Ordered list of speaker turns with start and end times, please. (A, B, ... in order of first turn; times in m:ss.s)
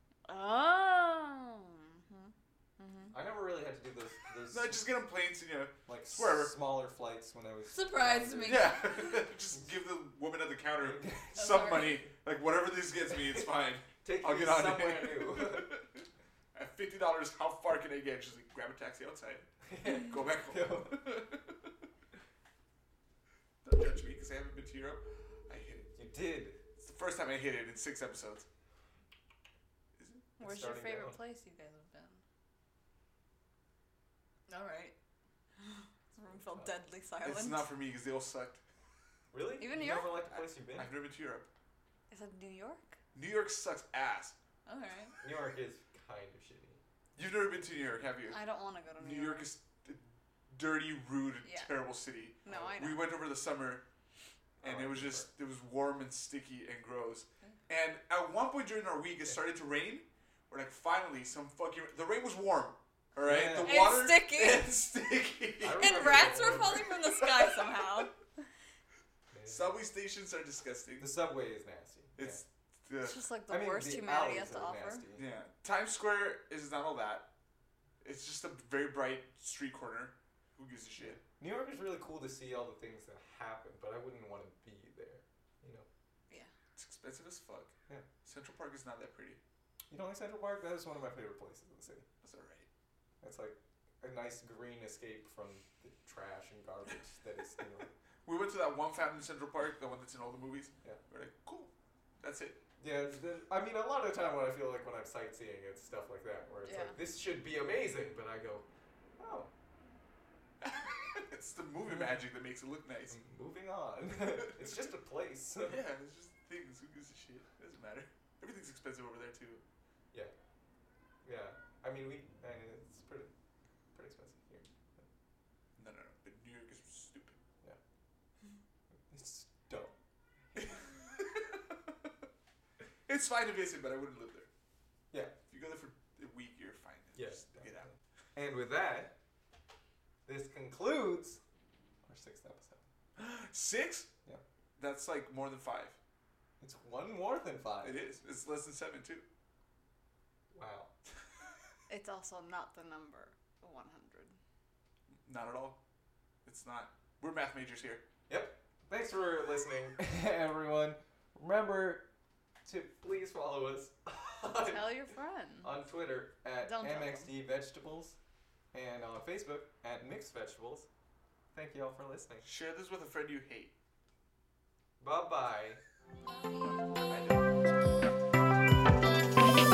0:00.3-0:03.2 A
0:03.1-0:04.8 B
0:04.5-0:06.5 C
0:05.8-0:09.6 B
0:07.7-0:09.3 A
0:08.4-0:21.8 C
0:10.8-0:11.7 B
0:11.4-0:12.0 A
0:13.1-0:13.5 B
0:14.0-0:15.7 B
0:19.6-0:21.0 B
0:23.6-0:25.9 C
0:25.9-0:26.6 B
0:26.8-0:28.4 C
0:30.0-0:30.3 C
0:30.4-0:31.2 B
0:30.4-0:32.2 A
0:34.5-0:34.9 A
0:35.6-0:37.7 A
0:36.1-0:36.7 B
0:37.2-0:38.6 C
0:39.3-0:40.9 B
0:39.6-0:40.2 A
0:40.3-0:41.5 C
0:42.1-0:43.0 A
0:43.1-0:44.4 C
0:44.6-0:45.1 A
0:45.2-0:46.8 B
0:47.2-0:48.4 C
0:48.2-0:49.5 A
0:49.0-0:53.8 C
0:51.4-0:51.7 A
0:52.4-0:53.0 A
0:52.5-0:52.8 B
0:54.6-0:55.3 B
0:54.6-1:08.0 C
1:03.2-1:03.9 B
1:03.6-1:04.7 A
1:05.6-1:06.9 B
1:05.8-1:08.1 A
1:09.3-1:09.8 B
1:09.4-1:11.1 C
1:11.0-1:12.4 B
1:12.2-1:13.2 C
1:13.0-1:15.0 A
1:13.5-1:15.3 B
1:15.1-1:17.3 C
1:18.0-1:21.2 C
1:21.0-1:25.9 B
1:26.8-1:29.4 C
1:29.9-1:32.0 B
1:32.2-1:32.7 C
1:33.2-1:37.9 B
1:38.2-1:42.6 C
1:42.8-1:48.6 B
1:46.6-1:47.0 A
1:49.2-1:49.5 B
1:50.6-1:53.2 C
1:51.8-1:52.2 B
1:53.1-1:55.9 B
1:54.4-1:54.7 C
1:55.6-1:59.6 C
2:01.2-2:03.3 B
2:03.9-2:05.0 B
2:05.8-2:07.4 C
2:09.1-2:09.9 B
2:10.5-2:10.8 B
2:10.6-2:11.7 C
2:13.1-2:14.5 C
2:15.5-2:17.9 C
2:17.1-2:19.1 B
2:20.2-2:21.4 B
2:22.0-2:22.8 B
2:23.2-2:24.1 C
2:24.8-2:26.0 C
2:26.6-2:28.0 B
2:27.8-2:29.2 C
2:30.5-2:30.9 B
2:31.9-2:34.4 A
2:35.2-2:35.8 C
2:36.4-2:38.0 C
2:38.3-2:42.1 B
2:42.6-2:44.9 B
2:44.6-2:45.7 A
2:45.6-2:48.2 B
2:46.6-2:47.3 A
2:48.7-2:50.9 B
2:51.5-2:52.4 B
2:52.4-2:53.7 C
2:55.0-2:55.8 B
2:56.2-2:57.1 A
2:56.8-2:57.5 C